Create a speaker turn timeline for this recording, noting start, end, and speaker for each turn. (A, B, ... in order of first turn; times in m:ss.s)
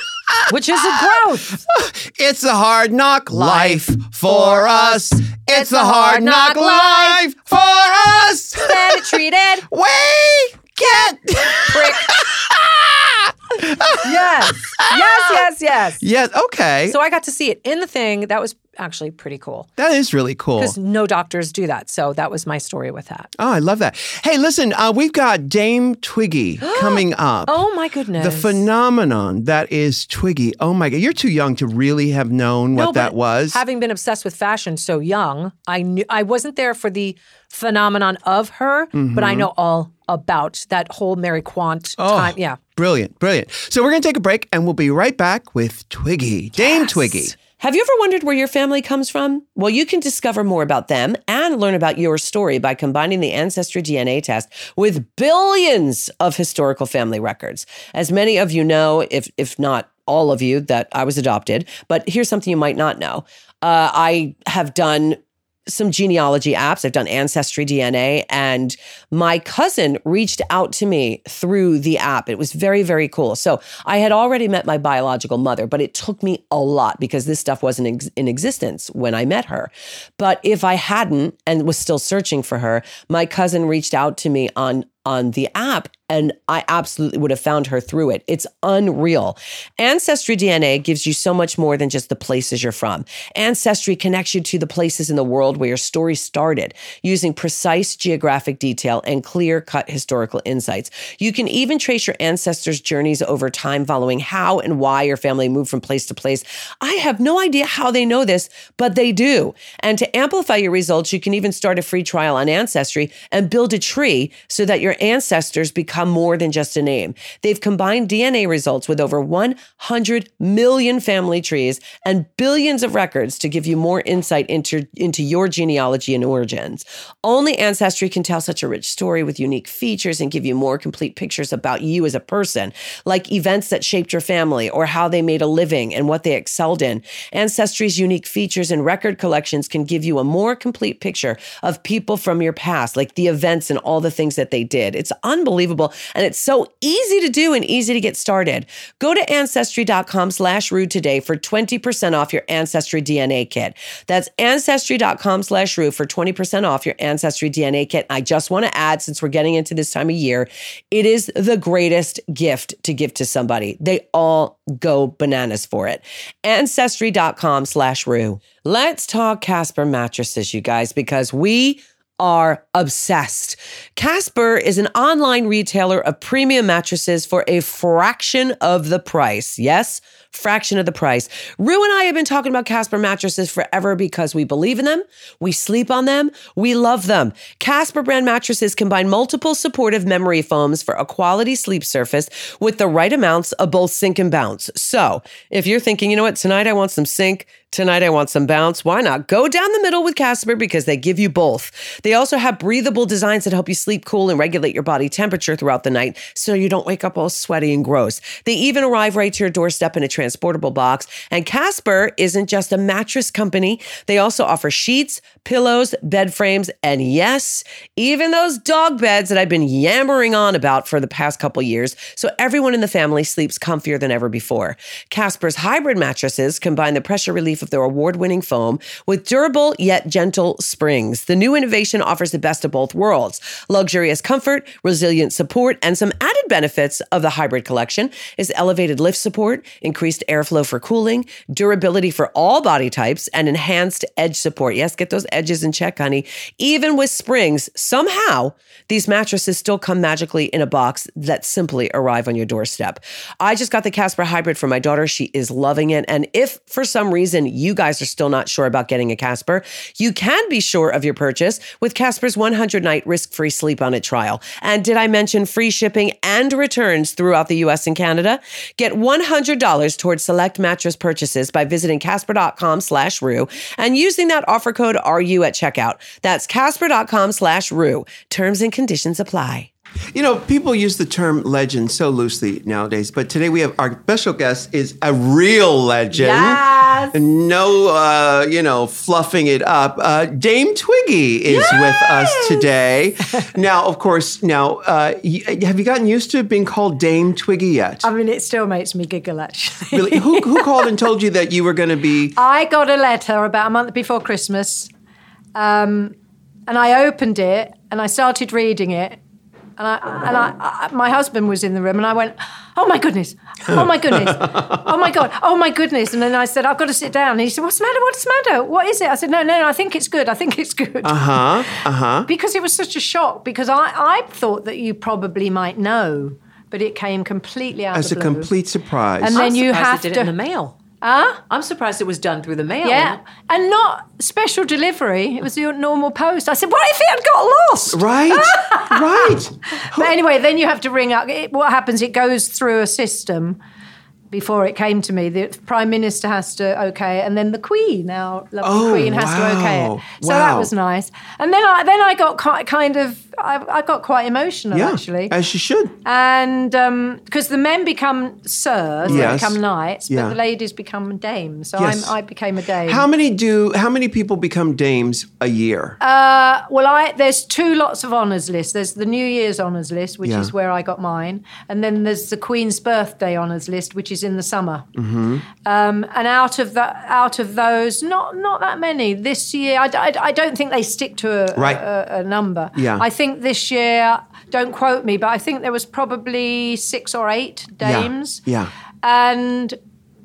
0:00.3-0:15.5 A
0:00.5-0:01.6 B
0:03.3-0:07.2 B
0:08.6-0:09.7 B
0:11.6-0:12.2 B
0:14.0-0:16.0 B
0:16.0-0:17.0 A
0:16.9-0:19.7 B
0:19.8-0:20.8 A
0:20.6-0:23.3 B
0:23.4-0:27.6 A
0:26.6-0:28.6 B
0:28.2-0:33.6 A
0:32.7-0:42.6 B
0:39.0-0:39.5 A
0:42.0-0:47.4 A
0:46.6-0:47.3 B
0:47.5-4:39.7 C
4:40.1-4:58.1 A
4:46.3-4:47.1 D
4:51.5-4:52.7 D
4:58.0-5:00.9 D
4:59.9-5:02.4 A
5:02.4-5:04.9 D
5:05.6-5:06.2 D
5:06.7-5:09.2 D
5:09.8-5:28.5 D
5:13.7-5:14.7 A
5:21.0-5:22.3 A
5:27.9-5:29.4 A
5:29.2-5:30.4 D
5:29.3-5:30.8 B
5:31.0-5:31.4 D
5:31.5-5:33.2 B
5:32.8-5:43.6 D
5:37.9-5:40.2 A
5:44.3-5:55.4 D
5:48.6-5:50.7 A
5:54.7-5:56.0 A
5:56.0-6:03.1 D
5:59.0-6:00.4 A
6:01.8-6:02.2 A
6:02.8-6:06.0 A
6:06.0-6:14.9 D
6:10.2-6:10.5 A
6:15.0-6:15.4 A
6:15.6-6:28.4 D
6:21.5-6:21.8 A
6:22.8-6:23.1 A
6:27.8-6:28.7 A
6:29.0-6:29.8 D